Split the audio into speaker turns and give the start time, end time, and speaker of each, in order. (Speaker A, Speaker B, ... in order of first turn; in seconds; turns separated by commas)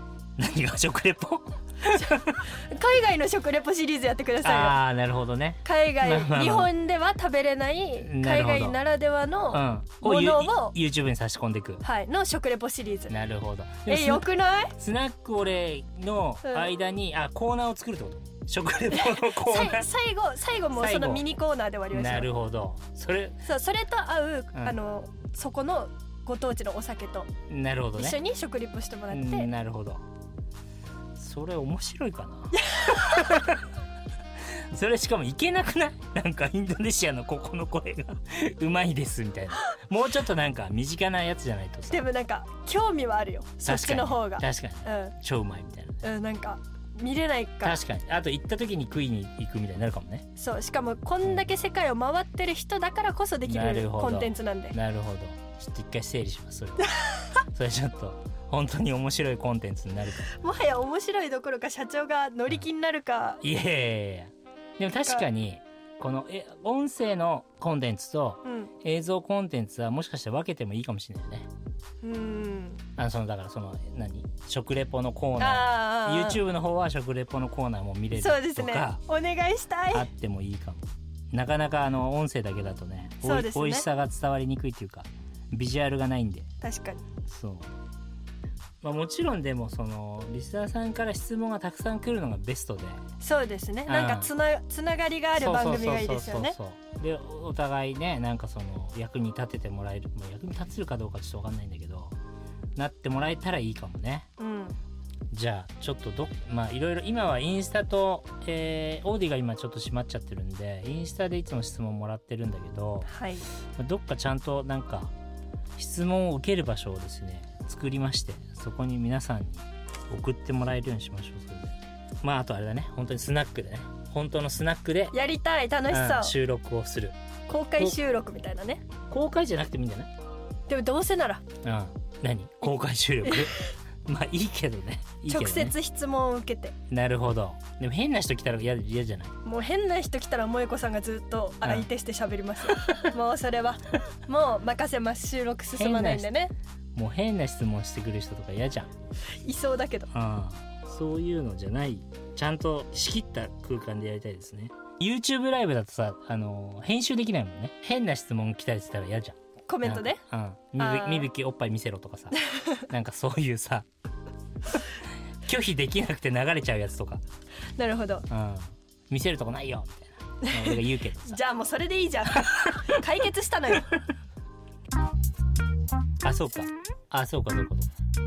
Speaker A: 0.4-2.5, Speaker B: 2.4-4.8, Speaker A: 4.4-6.7, Speaker B: 5.6-10.8, Speaker A: 8.0-8.8, Speaker A: 9.5-11.8, Speaker B: 11.8-13.1, Speaker A: 13.1-19.9, Speaker B: 13.9-14.8, Speaker B: 18.9-22.3, Speaker A: 20.7-21.2, Speaker A: 21.9-23.4, Speaker B: 23.4-27.3, Speaker A: 27.5-28.2, Speaker B: 28.0-29.5, Speaker A: 29.1-30.0, Speaker A: 31.1-33.6, Speaker B: 32.6-33.4, Speaker A: 34.5-42.0, Speaker B: 41.9-45.1, Speaker A: 43.6-46.0, Speaker B: 46.0-47.8, Speaker A: 47.6-50.3, Speaker B: 50.4-54.8, Speaker A: 53.5-56.9, Speaker B: 57.0-57.3, Speaker A: 57.5-60.3, Speaker B: 60.3-63.4, Speaker A: 63.4-71.5, Speaker B: 68.4-68.7, Speaker B: 72.0-72.8, Speaker A: 73.0-79.0, Speaker B: 75.4-76.4, Speaker B: 78.1-80.1, Speaker A: 79.9-86.5, Speaker B: 83.2-83.8, Speaker B: 86.6-87.0, Speaker A: 87.3-87.7, Speaker A: 88.8-93.0, Speaker B: 93.2-96.5, Speaker A: 93.9-94.3, Speaker A: 95.4-102.2, Speaker A: 102.8-104.3, Speaker B: 104.4-104.8, Speaker A: 105.3-113.1, Speaker B: 113.1-113.5, Speaker A: 113.8-115.1, Speaker A: 115.8-125.2, Speaker B: 125.1-126.3, Speaker A: 125.9-127.2, Speaker B: 127.5-128.8, Speaker A: 129.1-130.1, Speaker B: 130.7-131.4, Speaker A: 131.6-135.7, Speaker B: 133.2-133.7, Speaker B: 135.3-136.8, Speaker A: 136.9-139.3, Speaker B: 139.4-146.5, Speaker A: 141.6-141.9, Speaker A: 142.7-143.0, Speaker A: 145.7-146.3, Speaker A: 146.9-148.9, Speaker B: 149.4-150.1, Speaker A: 150.1-162.4, Speaker B: 159.7-160.2, Speaker B: 160.8-161.3, Speaker B: 162.4-162.7, Speaker A: 162.9-163.9, Speaker A: 165.4-167.2, Speaker B: 167.8-168.3, Speaker A: 168.3-171.4, Speaker B: 170.4-174.0, Speaker A: 176.2-177.9